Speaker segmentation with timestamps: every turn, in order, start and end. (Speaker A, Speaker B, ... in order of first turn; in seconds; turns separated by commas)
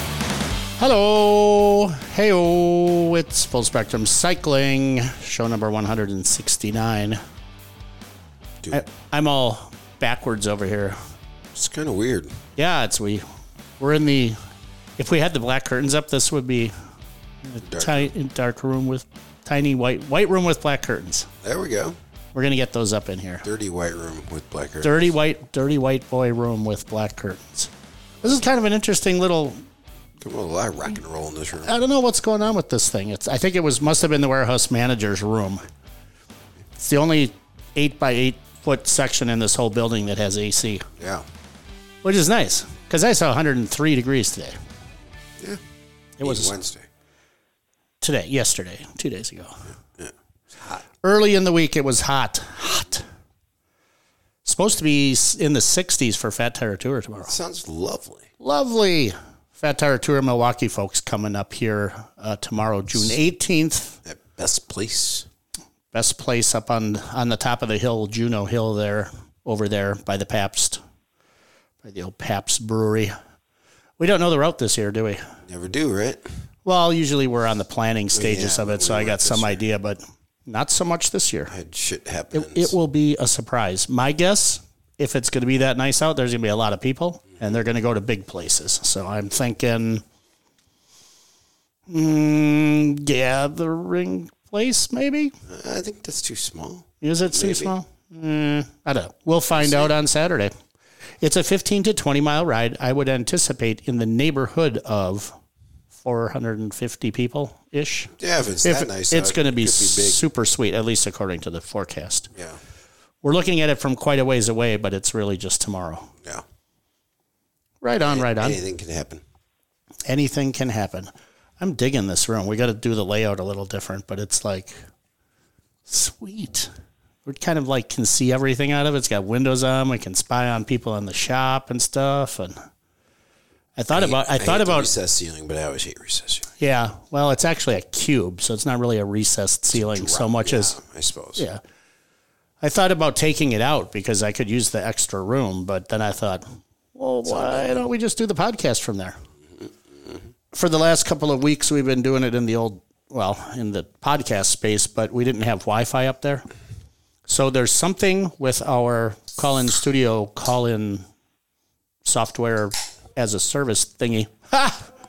Speaker A: 0.8-7.2, Speaker A: 8.7-11.0, Speaker B: 11.5-12.3, Speaker A: 12.6-13.2, Speaker A: 13.8-14.4, Speaker A: 15.0-16.7, Speaker A: 17.4-21.3, Speaker B: 17.6-18.1, Speaker B: 21.4-21.9, Speaker A: 22.3-23.4, Speaker B: 23.4-24.9, Speaker A: 24.8-27.7, Speaker A: 28.2-29.6, Speaker B: 30.2-31.7, Speaker A: 31.6-35.6, Speaker A: 36.8-40.9, Speaker B: 41.0-41.2, Speaker A: 42.0-44.5, Speaker A: 46.2-46.5, Speaker B: 46.2-46.9, Speaker A: 48.0-49.5, Speaker A: 51.0-53.0, Speaker A: 54.4-57.3, Speaker B: 57.2-58.3, Speaker A: 58.4-64.0, Speaker B: 64.0-65.2, Speaker A: 65.9-70.8, Speaker A: 71.8-73.1, Speaker A: 74.0-75.2, Speaker B: 75.5-76.2, Speaker A: 76.6-81.5, Speaker B: 78.1-79.6, Speaker B: 81.5-82.7, Speaker A: 82.3-90.0, Speaker A: 91.9-95.3, Speaker B: 95.5-97.7, Speaker A: 97.0-100.5, Speaker B: 99.5-99.9, Speaker A: 101.2-105.3, Speaker A: 106.0-108.1, Speaker B: 108.2-110.2, Speaker A: 108.6-112.3, Speaker A: 113.2-116.1, Speaker A: 117.8-118.6, Speaker B: 118.0-119.2, Speaker A: 120.0-124.8, Speaker A: 125.9-126.7, Speaker A: 127.2-132.6, Speaker A: 133.8-134.9, Speaker B: 133.9-136.5, Speaker A: 136.6-140.7, Speaker B: 139.7-141.4, Speaker A: 142.6-149.2, Speaker B: 147.2-147.8, Speaker A: 150.5-156.4, Speaker A: 157.3-161.0, Speaker A: 162.0-164.8